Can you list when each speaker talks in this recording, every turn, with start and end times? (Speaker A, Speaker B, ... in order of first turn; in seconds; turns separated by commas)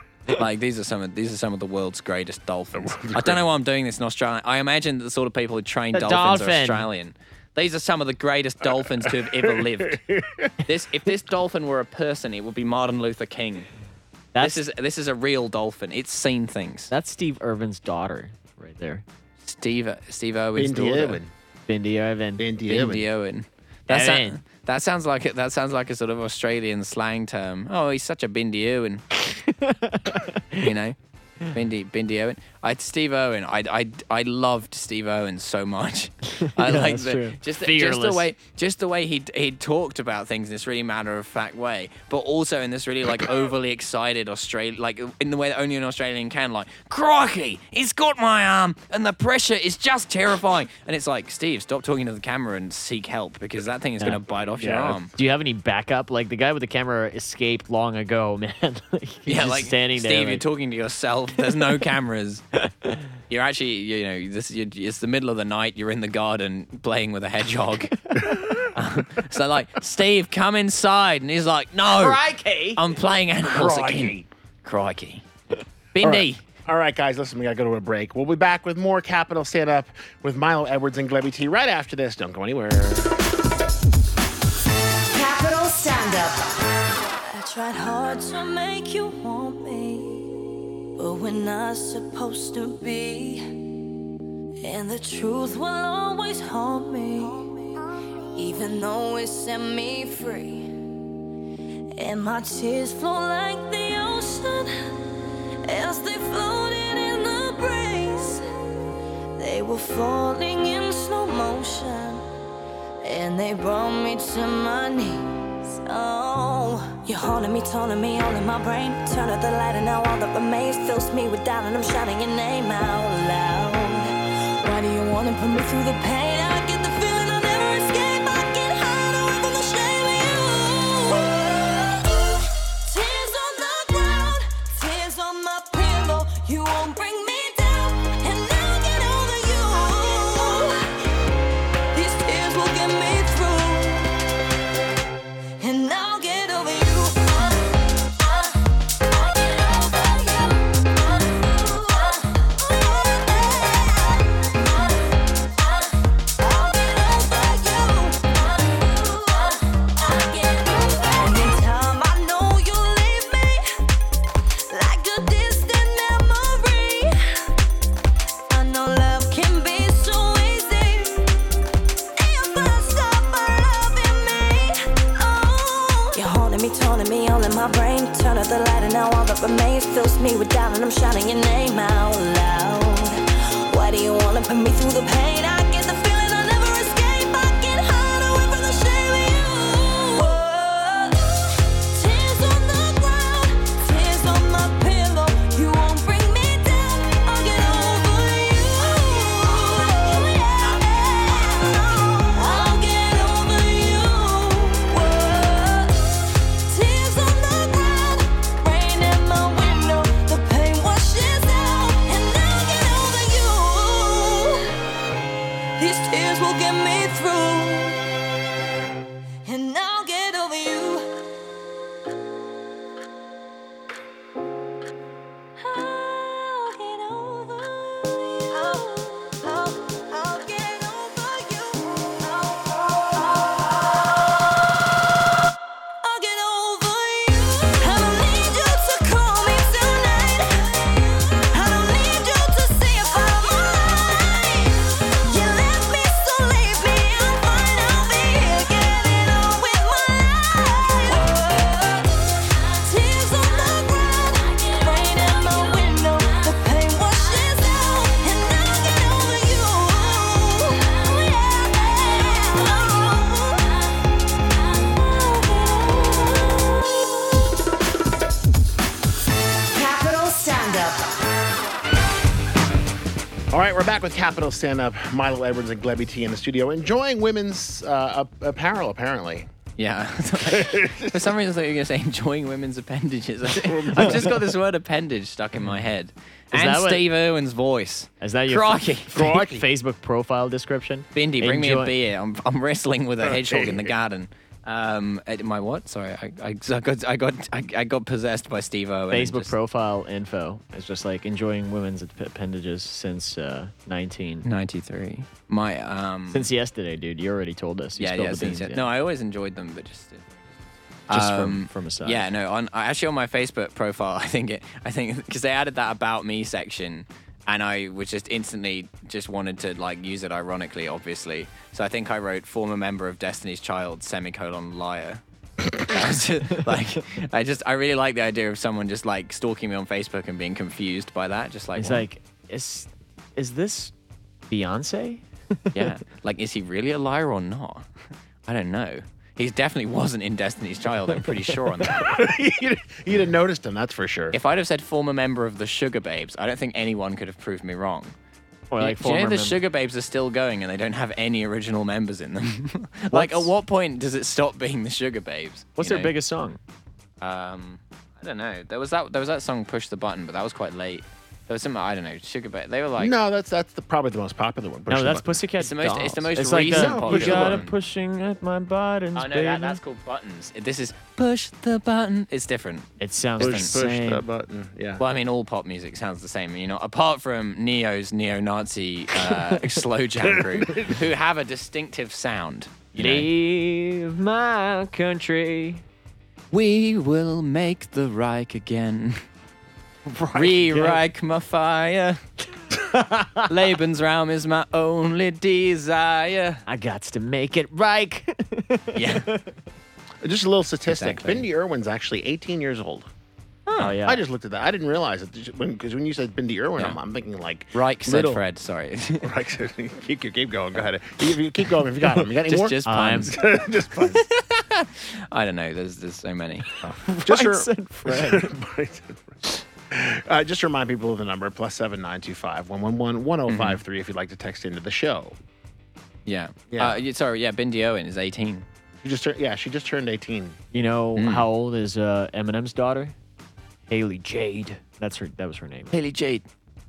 Speaker A: 0.3-10.0, Speaker B: 2.7-3.4, Speaker C: 5.9-6.9, Speaker B: 9.5-10.5, Speaker A: 10.6-13.7, Speaker C: 14.3-14.6, Speaker A: 14.4-16.9, Speaker C: 16.9-19.0, Speaker A: 19.4-21.2, Speaker B: 20.6-21.3, Speaker C: 21.7-22.4, Speaker B: 22.4-23.1, Speaker A: 22.7-29.0, Speaker C: 23.9-24.4, Speaker C: 29.2-30.7, Speaker A: 30.6-55.1, Speaker C: 36.3-38.3, Speaker B: 54.6-55.0, Speaker C: 55.1-60.4, Speaker A: 59.2-62.5, Speaker A: 63.3-68.2, Speaker C: 68.1-68.4, Speaker A: 68.7-72.2, Speaker C: 72.0-72.8, Speaker A: 72.7-75.2, Speaker B: 73.4-74.3, Speaker A: 75.9-76.4, Speaker B: 76.0-83.1, Speaker D: 85.1-86.4, Speaker D: 87.2-93.6, Speaker D: 94.6-100.7, Speaker D: 101.9-104.7, Speaker D: 105.6-108.4, Speaker D: 109.4-112.2, Speaker D: 113.0-141.1, Speaker D: 141.9-144.3, Speaker D: 145.6-147.6, Speaker D: 148.2-154.4, Speaker D: 155.8-163.8, Speaker D: 164.7-167.4, Speaker D: 168.5-171.3, Speaker D: 172.2-214.8, Speaker D: 215.8-218.1, Speaker D: 219.4-221.1, Speaker D: 225.6-234.9, Speaker D: 236.0-264.0, Speaker D: 264.7-267.0, Speaker D: 269.7-271.0, Speaker B: 273.5-279.5, Speaker A: 279.8-289.3, Speaker B: 280.5-281.2, Speaker B: 283.5-284.4, Speaker C: 286.5-287.0, Speaker C: 288.2-291.9, Speaker B: 289.1-289.6, Speaker A: 291.1-299.5, Speaker B: 293.2-293.9, Speaker C: 299.1-304.4, Speaker A: 304.4-306.5, Speaker C: 306.3-308.9, Speaker A: 308.0-310.5, Speaker A: 311.1-332.1, Speaker C: 311.1-312.3, Speaker C: 331.7-333.9, Speaker C: 334.5-335.9, Speaker A: 335.7-337.9, Speaker A: 338.5-342.2, Speaker C: 341.5-341.9, Speaker B: 342.0-344.4, Speaker A: 344.3-348.1, Speaker C: 348.7-349.6, Speaker A: 348.8-356.1, Speaker C: 353.1-353.5, Speaker C: 355.8-356.6, Speaker A: 357.2-363.1, Speaker B: 363.0-365.4, Speaker C: 364.9-369.8, Speaker A: 365.6-367.7, Speaker B: 366.7-367.6, Speaker A: 369.1-372.9, Speaker C: 373.0-374.2, Speaker A: 373.4-373.8, Speaker B: 373.4-375.0, Speaker A: 375.0-383.3, Speaker B: 380.2-380.9, Speaker C: 382.9-385.8, Speaker A: 386.5-389.1, Speaker C: 390.1-391.0, Speaker A: 390.3-392.2, Speaker C: 392.7-393.4, Speaker A: 393.4-396.6, Speaker C: 396.7-399.4, Speaker A: 398.9-399.3, Speaker B: 400.2-403.1, Speaker A: 400.9-401.5, Speaker A: 403.7-404.0, Speaker C: 403.7-404.2, Speaker B: 403.9-408.4, Speaker A: 407.7-409.3, Speaker B: 409.2-414.2, Speaker A: 412.4-413.3, Speaker C: 412.8-413.4, Speaker A: 414.1-416.7, Speaker B: 416.8-425.4, Speaker C: 417.1-418.5, Speaker A: 423.5-423.8, Speaker A: 426.2-428.6, Speaker B: 426.7-427.0, Speaker B: 429.0-430.6, Speaker C: 430.7-433.1, Speaker A: 431.1-431.5, Speaker C: 433.9-435.9, Speaker A: 435.9-436.4